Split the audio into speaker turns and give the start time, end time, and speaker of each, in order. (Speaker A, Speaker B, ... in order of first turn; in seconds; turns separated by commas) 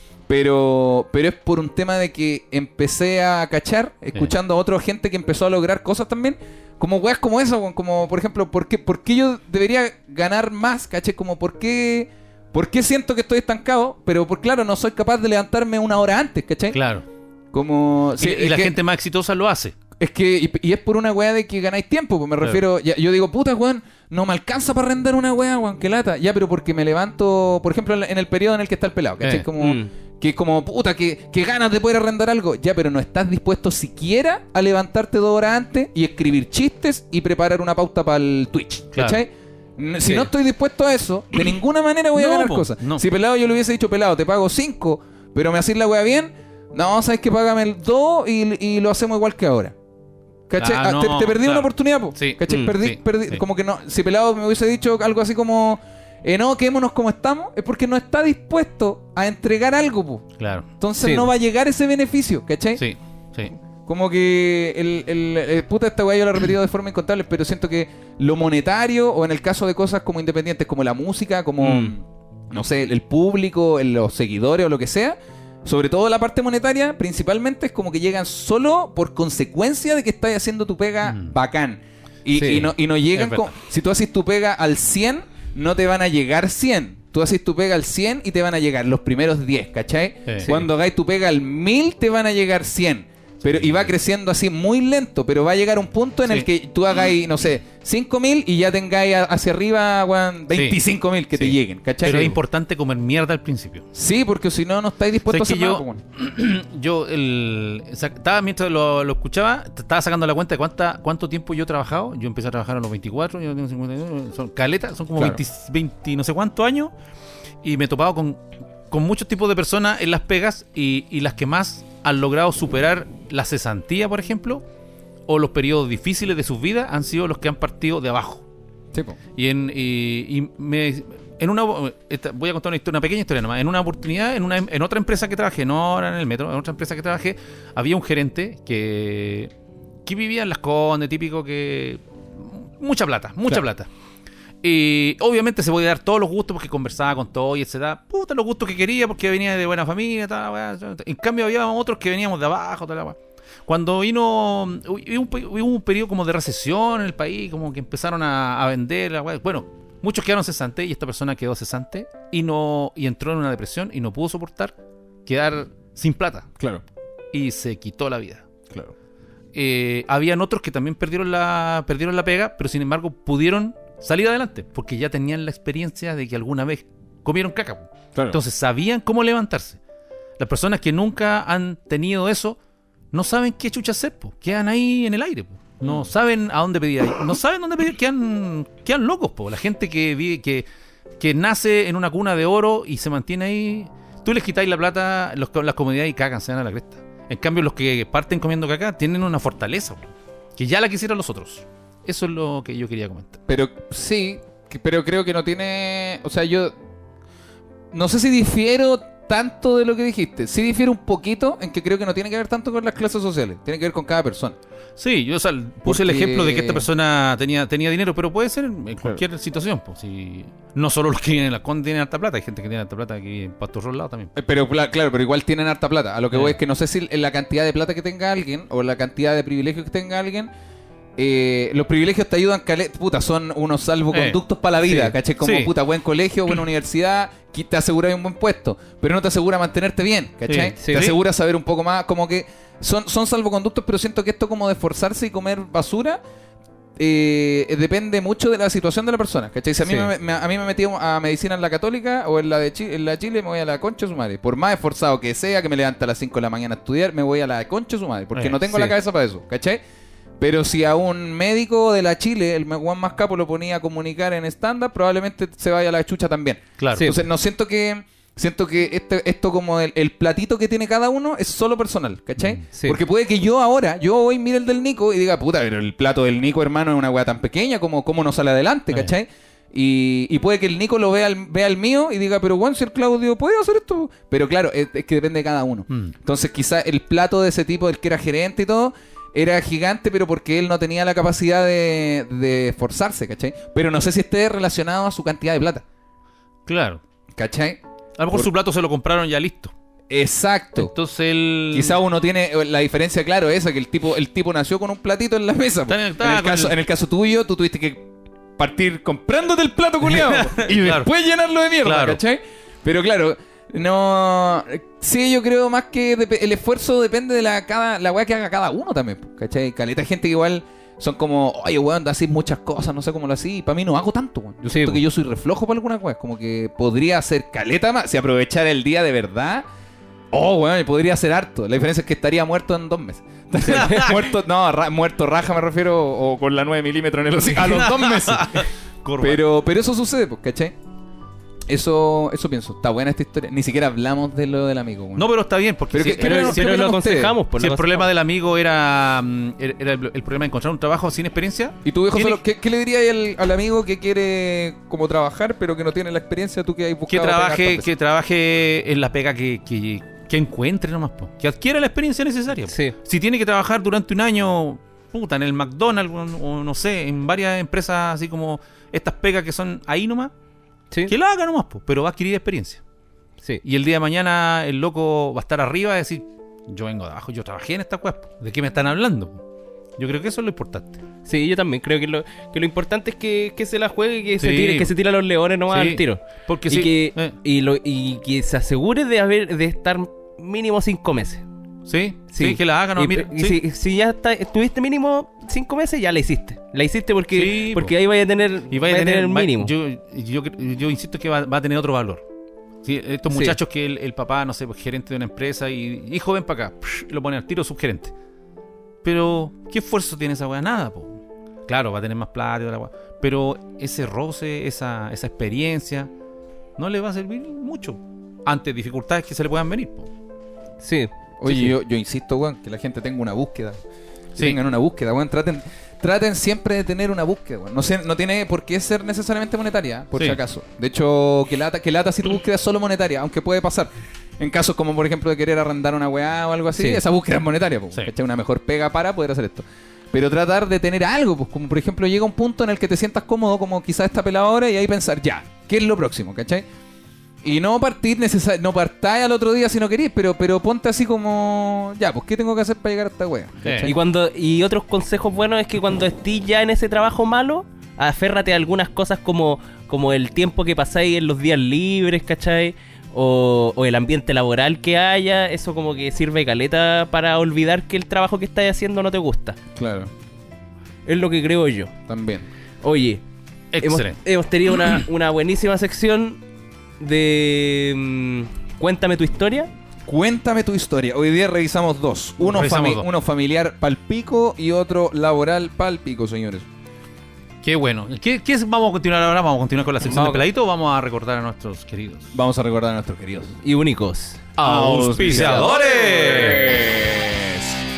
Speaker A: 0.3-16.8, Speaker B: 16.7-17.0, Speaker A: 17.5-18.7, Speaker B: 18.2-19.8, Speaker A: 20.0-49.7, Speaker B: 29.2-29.5, Speaker C: 29.6-29.9, Speaker B: 42.1-43.0, Speaker A: 50.5-62.8, Speaker B: 50.6-53.4, Speaker B: 60.4-60.6, Speaker C: 61.0-61.3, Speaker B: 62.8-63.5, Speaker A: 63.9-102.4, Speaker B: 71.6-71.9, Speaker B: 81.0-81.3, Speaker C: 82.3-82.7, Speaker B: 83.2-83.5, Speaker B: 90.2-90.5, Speaker C: 90.4-90.7, Speaker B: 93.4-93.9, Speaker B: 100.5-100.8, Speaker B: 101.3-103.8, Speaker A: 103.9-106.0, Speaker B: 105.3-116.9, Speaker B: 117.6-124.6, Speaker B: 125.3-128.4, Speaker A: 128.9-129.2, Speaker B: 129.3-139.5, Speaker B: 140.1-143.9, Speaker B: 144.6-164.7, Speaker B: 165.2-166.5, Speaker B: 167.3-168.5, Speaker B: 169.5-179.8, Speaker B: 180.4-182.6, Speaker B: 183.1-190.6, Speaker B: 191.2-200.0, Speaker B: 200.6-203.4, Speaker A: 203.5-206.8, Speaker A: 207.9-214.6, Speaker B: 215.0-224.3, Speaker A: 215.8-216.8, Speaker A: 224.3-230.5, Speaker B: 226.3-226.6, Speaker A: 231.2-246.2, Speaker B: 234.1-234.4, Speaker B: 235.4-235.7, Speaker B: 240.4-240.7, Speaker C: 240.8-241.2, Speaker A: 247.0-259.8, Speaker C: 249.8-250.1, Speaker B: 258.3-258.9, Speaker A: 260.4-295.8, Speaker B: 266.8-267.1, Speaker B: 272.4-272.6, Speaker C: 272.7-273.0, Speaker B: 285.9-286.1, Speaker B: 296.7-297.0, Speaker A: 297.3-297.8, Speaker B: 298.2-299.7, Speaker A: 300.1-300.9, Speaker B: 300.8-302.0, Speaker A: 301.7-308.1, Speaker B: 305.9-306.8, Speaker A: 308.6-329.7, Speaker B: 310.1-311.1, Speaker B: 311.8-312.2, Speaker C: 324.7-325.0, Speaker A: 330.3-338.6, Speaker C: 333.6-334.3, Speaker B: 337.5-339.4, Speaker A: 339.2-340.7, Speaker A: 341.7-345.3, Speaker B: 345.1-346.9, Speaker A: 345.9-347.3, Speaker C: 346.2-348.1, Speaker B: 347.6-352.4, Speaker A: 351.8-357.9, Speaker B: 357.1-370.3, Speaker C: 362.7-362.9, Speaker B: 371.1-372.8, Speaker B: 373.6-379.4, Speaker B: 380.0-381.0, Speaker C: 381.2-391.4, Speaker B: 384.4-384.9, Speaker B: 385.7-387.3, Speaker B: 391.9-393.6, Speaker C: 392.3-399.7, Speaker B: 397.3-397.9, Speaker B: 398.7-402.2, Speaker B: 402.8-408.1, Speaker C: 403.3-403.6, Speaker B: 409.0-416.1, Speaker B: 416.8-420.1, Speaker C: 420.8-421.7, Speaker A: 421.4-423.8, Speaker A: 424.4-446.6, Speaker B: 430.1-430.4, Speaker C: 436.8-437.0, Speaker A: 447.4-454.0, Speaker B: 453.6-453.9, Speaker C: 453.8-469.6, Speaker A: 469.8-470.1, Speaker C: 471.1-471.9, Speaker A: 472.1-472.5, Speaker C: 472.8-473.2, Speaker B: 473.7-474.2, Speaker C: 473.8-476.4, Speaker C: 477.0-479.7, Speaker A: 480.1-486.6, Speaker B: 482.4-483.1, Speaker B: 487.6-492.3, Speaker C: 490.1-490.4, Speaker A: 492.3-493.6, Speaker C: 493.6-494.4, Speaker B: 494.6-496.8, Speaker A: 494.6-497.8